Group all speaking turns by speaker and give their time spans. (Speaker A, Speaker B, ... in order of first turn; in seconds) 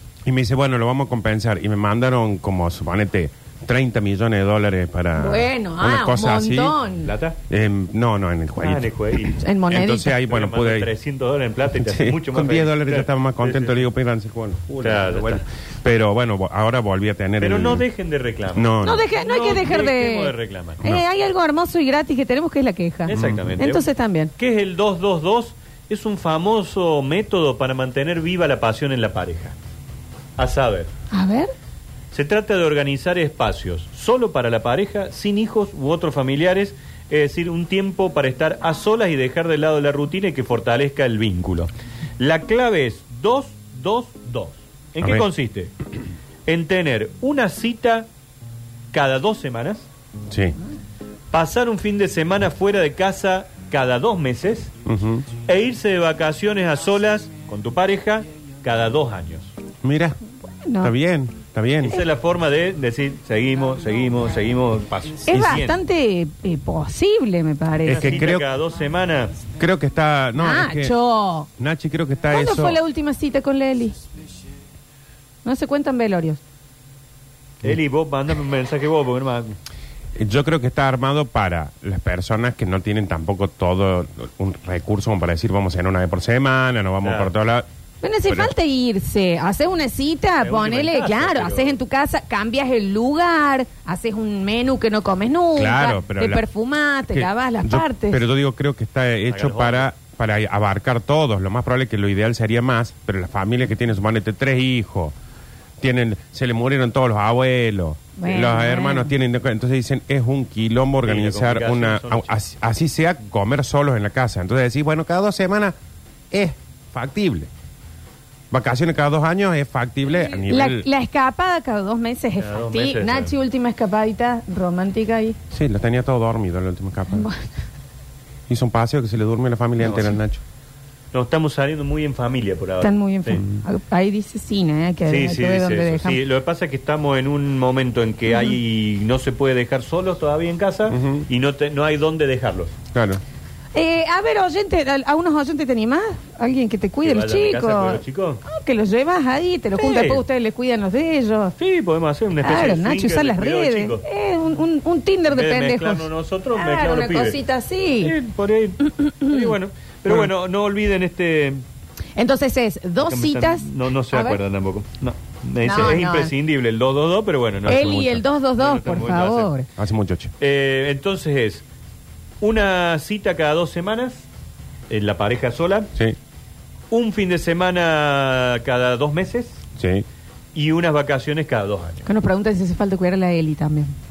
Speaker A: 0.3-6.8, 7.5-10.9, 11.8-17.9, 18.5-19.1, 23.1-23.6, 45.0-45.3, 50.3-50.6, 54.9-55.2, 59.8-60.2, 60.8-62.0, 65.3-65.6, 67.9-68.5, 69.6-71.0, 71.6-72.8, 80.2-87.7, 88.3-88.5, 95.6-96.5, 97.1-105.1, 105.8-115.7, 116.3-117.5, 118.5-120.9, 125.5-127.3, 128.5-130.4, 133.3-133.6, 140.9-141.3, 142.9-143.2, 167.7-168.2, 169.8-170.3, 179.8-180.1
Speaker B: 5.2-7.1, 9.4-10.2, 18.8-24.3, 31.1-31.5, 60.6-60.9, 65.3-68.2, 70.4-71.5, 72.3-74.0, 75.4-76.4, 88.0-98.2, 108.2-109.1, 120.5-125.4, 127.1-127.4, 132.8-136.2, 138.3-138.6, 143.8-151.6, 152.4-158.1, 158.8-159.4, 162.2-164.4, 165.6-166.3, 167.7-169.7, 182.1-183.9
Speaker C: 7.0-7.4, 8.6-9.4, 10.2-13.8, 14.7-15.5, 17.4-20.8, 23.1-29.6, 30.4-30.9, 32.1-45.7, 46.5-48.1, 48.9-49.9, 51.3-54.7, 55.5-59.5, 61.8-65.8, 67.9-69.3, 77.6-79.6, 87.0-87.3, 90.4-91.8, 99.3-99.9, 111.0-112.3, 122.4-123.3, 129.8-130.2, 131.1-133.4, 135.1-142.7, 147.0-148.4, 149.8-150.2, 151.6-154.0, 155.3-157.4, 158.0-161.6, 163.0-168.1, 168.6-169.5, 170.4-171.6, 172.4-174.3, 174.9-175.9, 176.9-179.6, 180.6-182.1